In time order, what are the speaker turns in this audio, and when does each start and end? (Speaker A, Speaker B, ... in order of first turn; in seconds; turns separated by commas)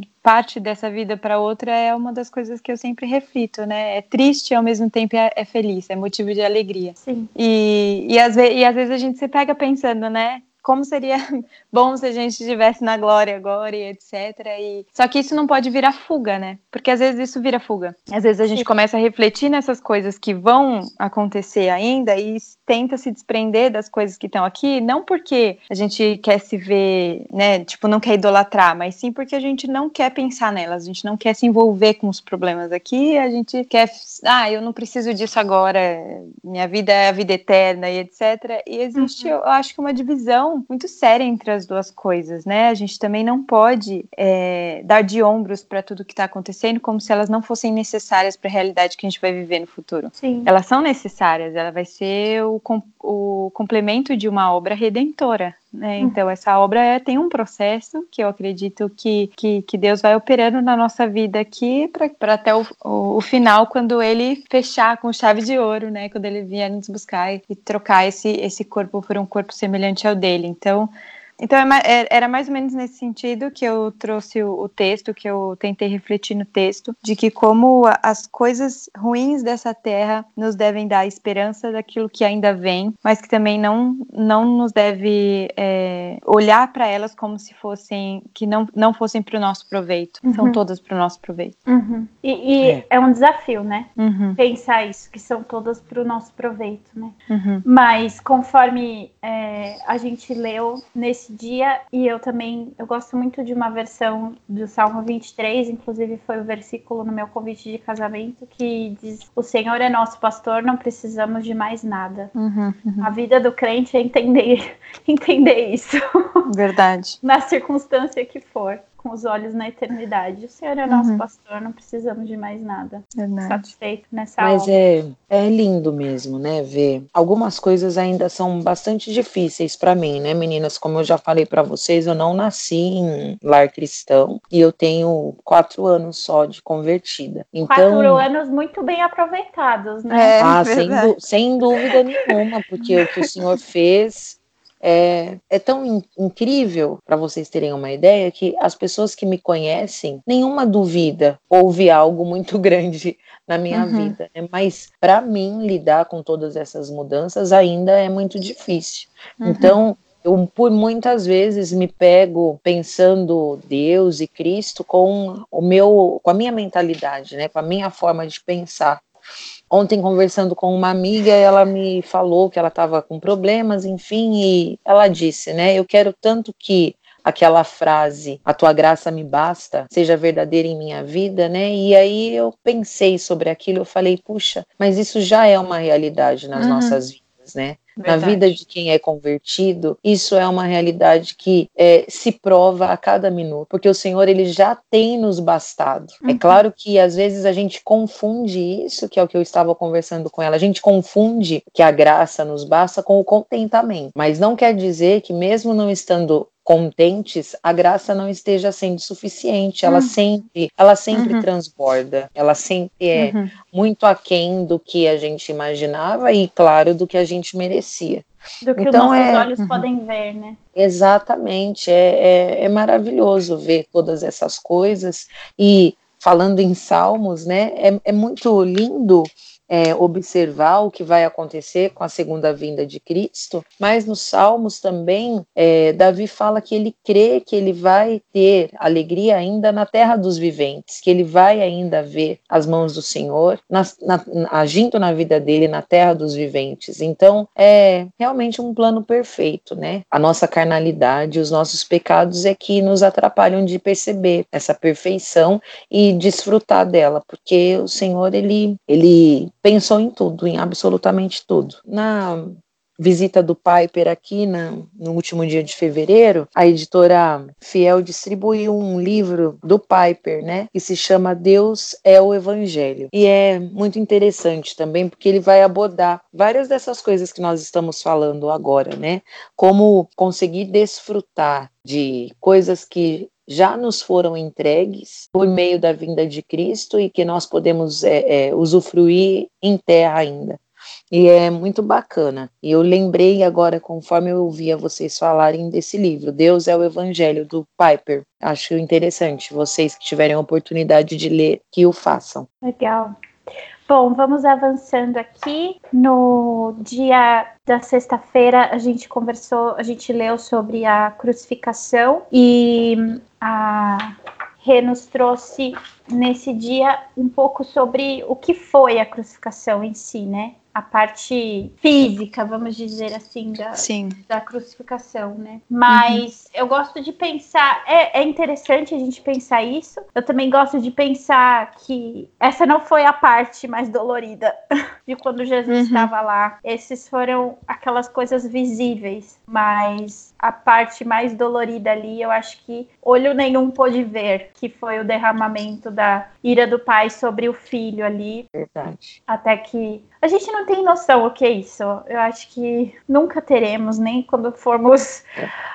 Speaker A: 0.2-91.5, Speaker B: 7.0-7.3, Speaker B: 39.0-39.3, Speaker B: 50.2-50.5, Speaker B: 90.3-90.6, Speaker B: 91.7-112.3, Speaker A: 94.0-94.4, Speaker A: 97.3-97.6, Speaker A: 112.3-113.1, Speaker B: 113.0-116.5, Speaker A: 116.5-117.2, Speaker B: 117.2-124.7, Speaker A: 120.9-121.2, Speaker A: 123.2-123.7, Speaker C: 124.4-138.3, Speaker B: 137.7-140.4, Speaker A: 140.1-141.1, Speaker C: 140.4-169.0, Speaker A: 153.7-154.2, Speaker A: 159.4-159.8, Speaker C: 169.7-218.2, Speaker A: 186.6-187.0, Speaker A: 188.0-188.6, Speaker B: 196.2-196.6, Speaker B: 209.8-210.2, Speaker A: 211.1-211.4, Speaker A: 213.2-213.5, Speaker B: 218.6-220.6, Speaker C: 218.8-219.5, Speaker A: 219.6-219.9, Speaker C: 220.8-290.6, Speaker C: 291.1-302.5, Speaker B: 302.6-303.1, Speaker B: 303.9-348.5, Speaker A: 323.8-324.2, Speaker A: 325.9-326.2, Speaker A: 335.7-336.1, Speaker C: 348.6-349.2, Speaker B: 349.3-355.2